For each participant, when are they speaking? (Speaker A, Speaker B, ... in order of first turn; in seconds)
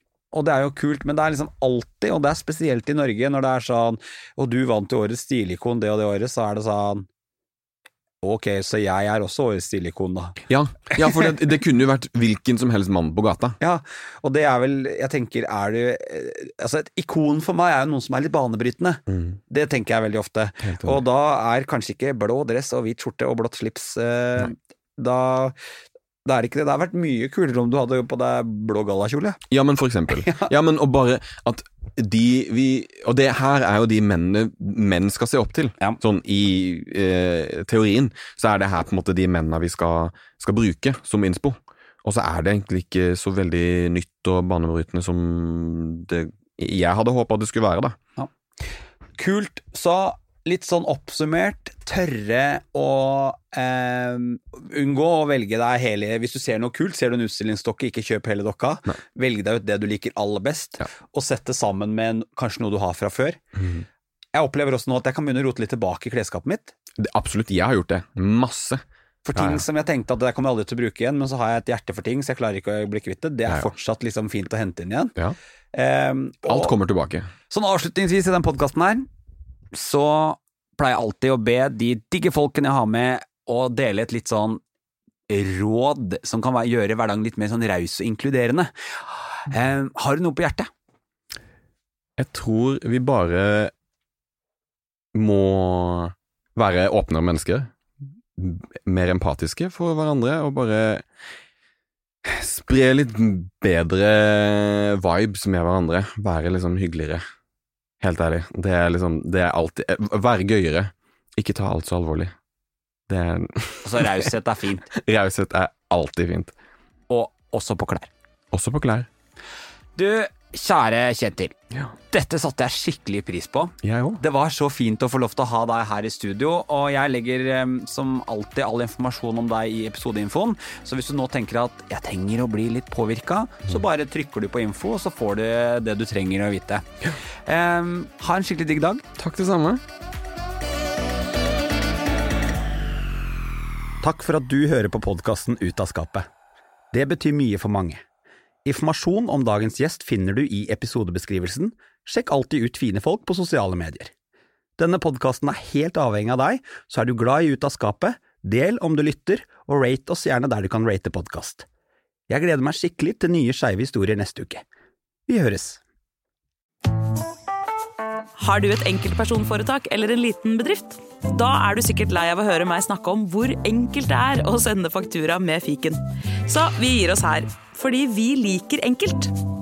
Speaker A: 0.3-7.1, 8.2-10.4, 10.9-11.3, 13.6-25.5, 26.2-29.4, 30.2-30.5, 49.2-63.4, 64.3-66.7, 69.2-75.1, 75.7-76.7, 77.5-79.0, 79.7-84.6, 85.3-90.7, 113.8-114.9, 117.1-118.1, 120.0-121.5, 122.1-136.8, 137.4-139.0, 144.0-146.3, 146.9-148.0, 148.6-154.1, 154.8-161.7, 162.3-164.6, 165.3-165.8
Speaker B: 10.5-13.6, 19.1-19.4, 20.6-21.0, 29.5-48.0, 63.5-63.8, 67.0-68.8, 69.3-69.6, 73.5-73.7, 76.4-77.3, 92.2-93.7, 95.1-97.7, 98.3-101.0, 102.2-107.2, 108.0-112.3, 113.1-114.3, 114.9-116.5, 118.5-119.1, 123.8-124.2, 139.2-139.8
Speaker C: 168.4-179.3